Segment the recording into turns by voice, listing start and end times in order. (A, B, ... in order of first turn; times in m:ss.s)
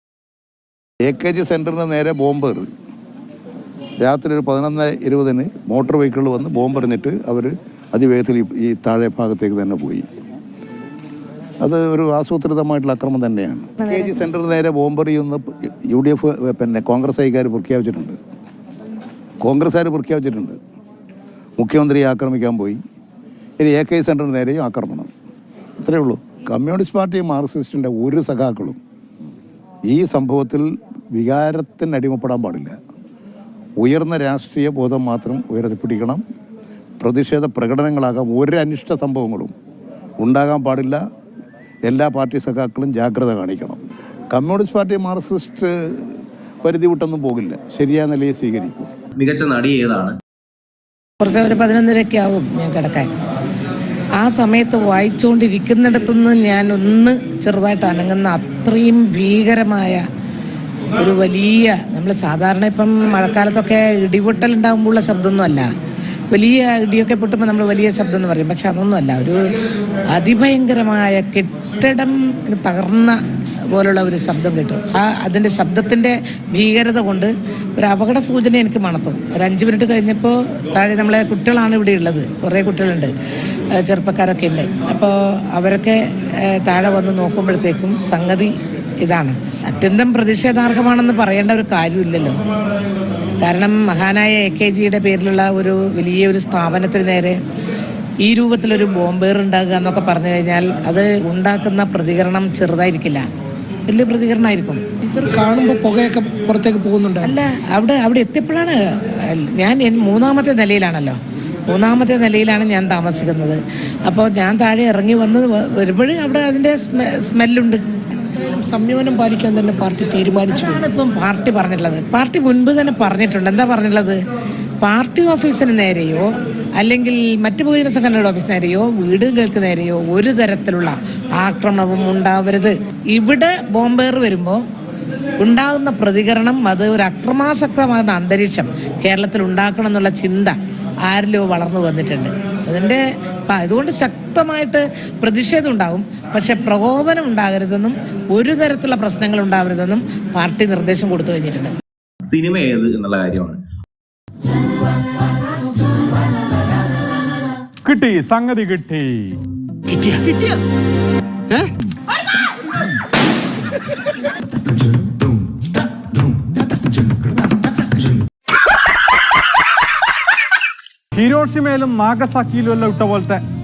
0:01.0-0:02.7 A
0:04.0-0:10.1 A
0:11.6-0:18.2 A
0:19.4-0:20.6 A
0:21.6-0:22.8 A
0:23.6-0:25.1 A
0:25.8-0:28.8 A
0:29.9-0:32.8 A
0:33.8-0:36.2 A
0:37.0-0:39.5 A
0:40.2-0:41.0 A
0:41.9-0:48.9 A
0:49.2-0:50.2 B
0:51.2-0:53.1 C
0:54.2-1:00.0 C
1:01.0-1:05.7 C
1:06.3-1:09.6 C
1:10.1-1:13.2 C
1:13.7-1:23.1 C
1:23.7-1:32.4 C
1:33.4-1:37.4 C
1:38.2-1:43.2 C
1:43.9-1:44.8 C
1:45.1-1:47.3 D
1:47.2-1:57.8 C
1:58.2-2:00.8 D
2:00.5-2:04.2 C
2:04.8-2:14.6 C
2:15.4-2:31.8 C
2:32.2-2:33.6 B
2:37.8-2:39.4 E
2:51.2-2:53.4 E